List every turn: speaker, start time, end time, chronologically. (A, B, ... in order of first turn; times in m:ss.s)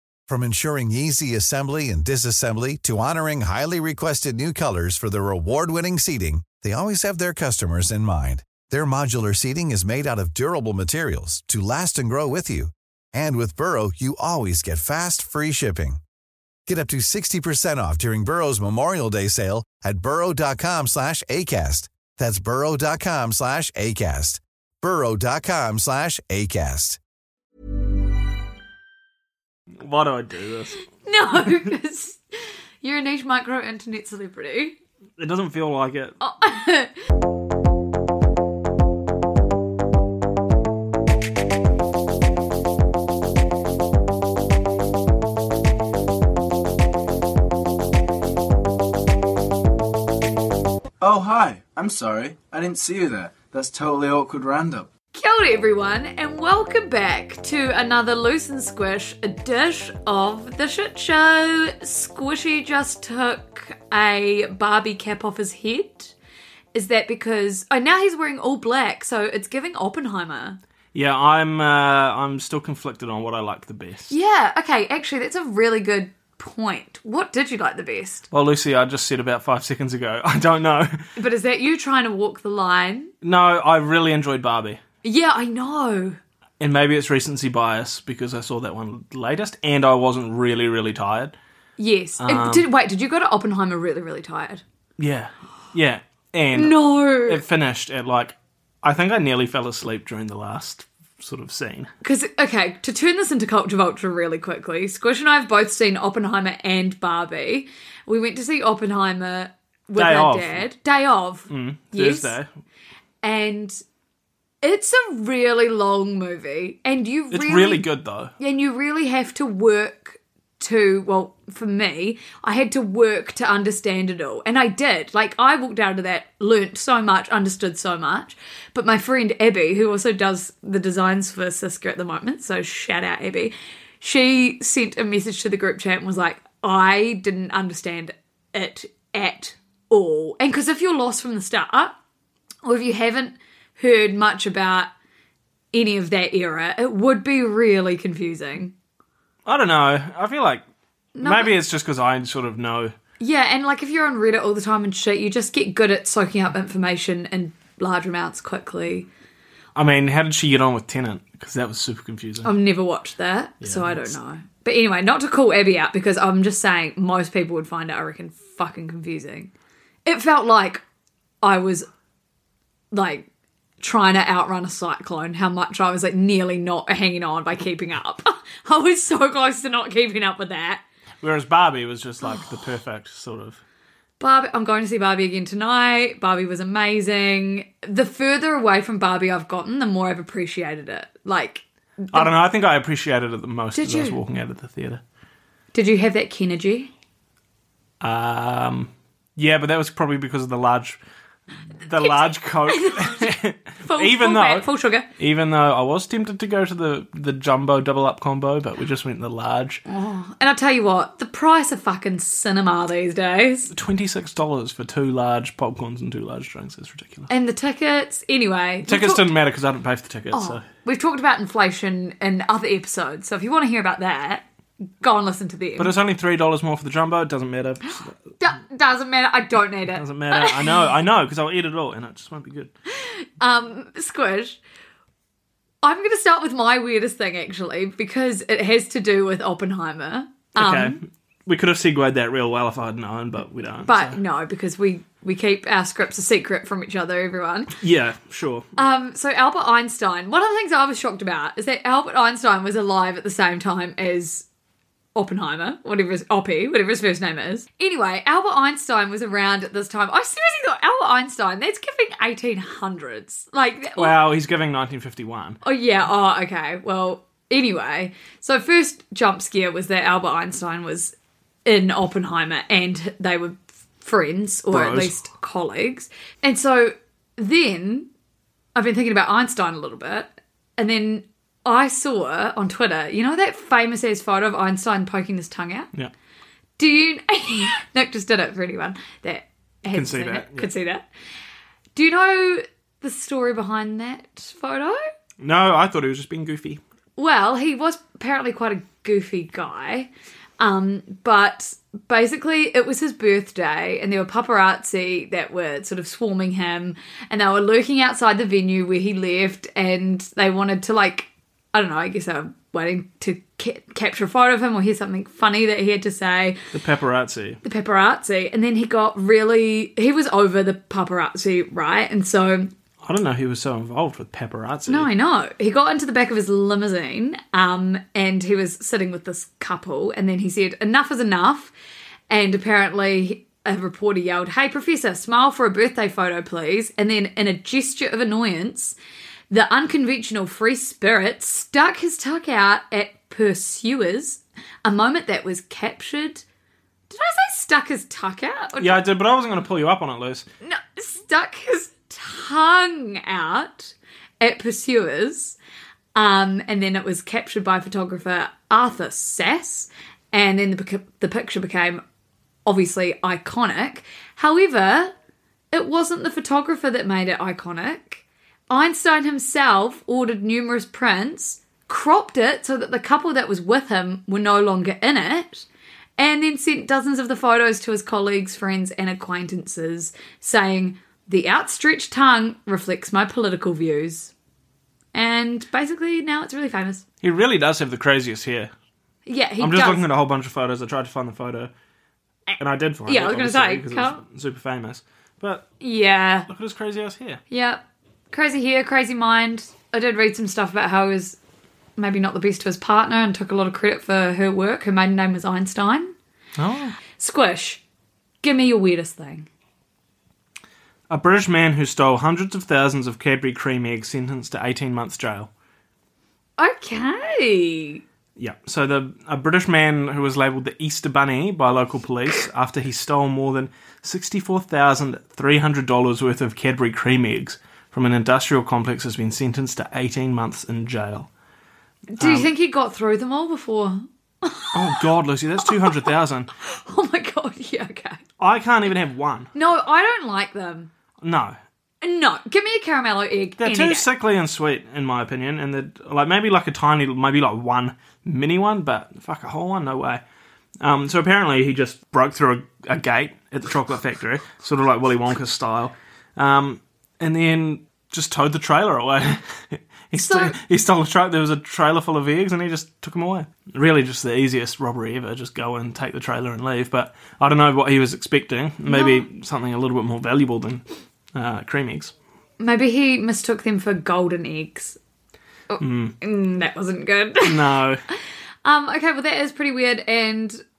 0:00.3-0:16.0 A
0:16.7-0:27.0 A
0:29.8-0:30.8 B
0:31.0-0:32.2 C
0:32.8-0:34.8 C
0:35.2-0:36.2 B
0:36.2-0:36.9 C
0:51.0-0:54.9 D
0:55.1-1:06.1 C
1:06.7-1:10.6 C
1:10.9-1:14.1 B
1:14.1-1:18.3 C
1:18.3-1:21.0 B
1:21.2-1:23.1 C
1:23.2-1:24.8 B
1:25.0-1:26.2 C
1:26.6-1:31.3 B
1:31.8-1:34.6 C
1:32.2-1:32.6 B
1:35.0-1:41.9 B
1:36.5-1:37.4 C
1:42.0-1:52.3 C
1:50.0-1:50.6 B
1:51.5-1:52.5 B
1:53.2-1:53.8 C
1:54.6-1:57.8 C
1:57.3-1:58.3 B
1:58.4-2:22.0 C
2:22.6-2:24.9 C
2:25.7-2:28.7 C
2:29.4-2:30.6 B
2:31.1-2:31.5 C
2:31.2-2:32.9 B
2:33.2-2:39.1 C
2:39.7-2:42.5 B
2:42.4-2:49.5 C
2:43.6-2:44.1 B
2:50.0-2:50.8 C
2:51.4-2:51.9 C
2:52.9-2:53.3 C
2:53.8-3:00.8 C
3:01.2-3:03.6 B
3:04.2-3:12.3 C
3:12.1-3:15.0 B
3:13.8-3:14.2 C
3:15.7-3:16.9 C
3:18.0-3:21.0 B
3:21.8-3:24.7 B
3:22.0-3:23.3 C
3:23.8-3:25.1 C
3:25.2-3:29.8 B
3:29.9-3:33.7 C
3:33.7-3:37.3 B
3:37.3-3:39.2 C
3:38.8-3:40.6 B
3:40.3-3:44.4 C
3:45.0-3:45.9 C
3:45.8-3:48.2 B
3:48.4-3:50.9 C
3:49.9-3:52.7 B
3:53.0-3:54.6 C
3:55.8-4:01.0 C
4:00.6-4:04.2 B
4:03.8-4:07.7 C
4:07.8-4:08.7 B
4:08.8-4:14.4 C
4:15.1-4:24.1 C
4:24.0-4:25.6 B
4:25.6-4:31.1 C
4:31.6-4:38.1 C
4:34.7-4:35.1 B
4:38.7-4:45.9 C
4:46.8-4:51.0 C
4:49.9-4:50.7 B
4:51.9-4:55.0 C
4:55.4-4:56.8 B
4:57.2-5:16.6 C
5:16.7-5:17.6 B
5:17.6-5:22.7 C
5:23.0-5:25.1 B
5:24.9-5:31.7 C
5:32.3-5:38.9 C
5:39.5-5:46.4 C
5:47.1-5:49.0 C
5:48.8-5:50.4 B
5:50.6-5:55.6 C
5:56.1-6:02.0 C
6:02.6-6:05.1 C
6:05.7-6:15.6 C
6:16.2-6:24.3 C
6:25.1-6:27.0 C
6:27.2-6:28.7 B
6:29.2-6:30.0 C
6:29.6-6:31.7 B
6:32.6-6:35.6 B
6:33.0-6:34.2 C
6:35.8-6:36.5 C
6:36.5-6:37.4 B
6:37.5-6:41.4 C
6:42.0-6:46.1 C
6:46.6-6:47.0 B
6:47.2-6:47.8 C
6:48.4-6:49.5 C
6:51.1-6:55.5 B
6:56.6-6:58.0 C
6:58.4-7:11.3 B
7:12.1-7:15.0 C
7:12.2-7:12.5 B
7:14.7-7:16.5 B
7:15.6-7:18.2 C
7:18.4-7:19.5 B
7:19.5-7:20.9 C
7:21.2-7:21.6 B
7:22.0-7:24.1 C
7:23.6-7:30.2 B
7:30.8-7:50.8 B
7:40.2-7:40.6 C
7:48.8-7:49.2 C
7:51.3-7:52.1 B
7:52.6-7:55.0 C
7:55.7-8:00.6 C
7:55.8-7:56.1 B
7:57.4-7:58.0 B